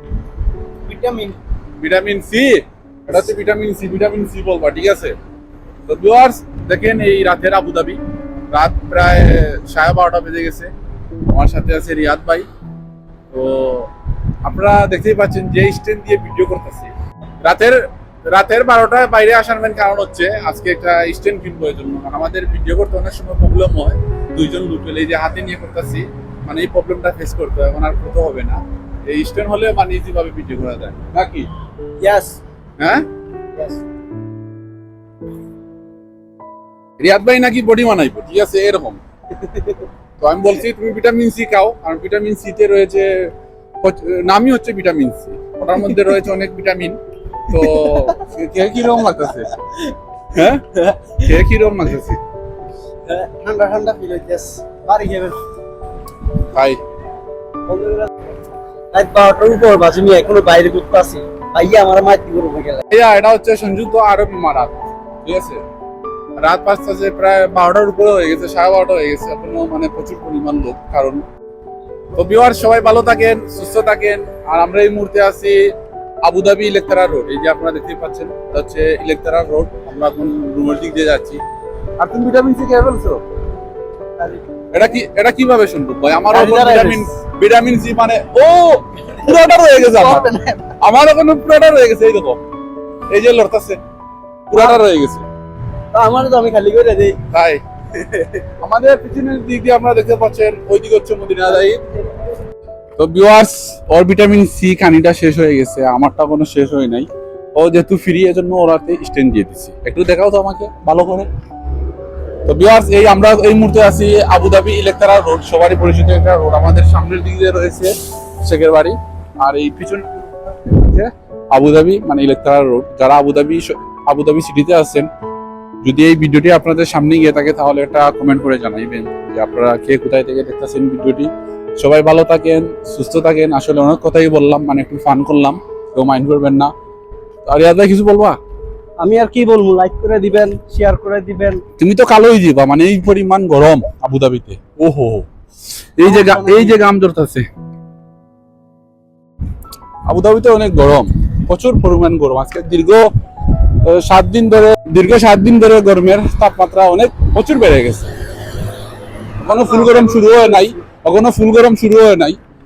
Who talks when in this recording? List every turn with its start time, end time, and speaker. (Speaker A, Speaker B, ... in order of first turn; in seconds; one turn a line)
Speaker A: 0.8-1.4
Speaker B: 1.8-5.2
Speaker B: 5.9-10.7
Speaker B: 11.3-12.5
Speaker B: 13.3-13.9
Speaker B: 14.4-16.9
Speaker B: 17.4-31.5
Speaker A: 32.0-32.4
Speaker B: 32.8-33.0
Speaker A: 33.6-33.8
Speaker B: 37.0-39.0
Speaker A: 39.4-39.8
Speaker B: 40.2-49.5
Speaker A: 47.5-48.1
Speaker B: 50.3-52.2
Speaker A: 53.1-55.4
Speaker B: 56.4-56.8
Speaker A: 57.7-58.1
Speaker A: 58.9-62.8
Speaker B: 62.9-65.6
Speaker B: 66.4-71.2
Speaker B: 72.2-75.7
Speaker B: 76.2-81.4
Speaker B: 82.0-83.2
Speaker B: 84.7-92.4
Speaker A: 86.3-87.2
Speaker A: 89.8-90.6
Speaker B: 93.1-93.8
Speaker B: 94.5-95.3
Speaker A: 95.9-97.2
Speaker B: 97.3-97.6
Speaker A: 98.0-98.4
Speaker B: 98.6-101.9
Speaker B: 103.0-111.3
Speaker B: 112.5-125.1
Speaker B: 125.8-136.7
Speaker B: 137.4-138.4
Speaker A: 139.0-141.6
Speaker B: 141.8-145.3
Speaker B: 146.0-147.5
Speaker A: 146.0-146.8
Speaker B: 150.1-158.1
Speaker B: 159.4-162.4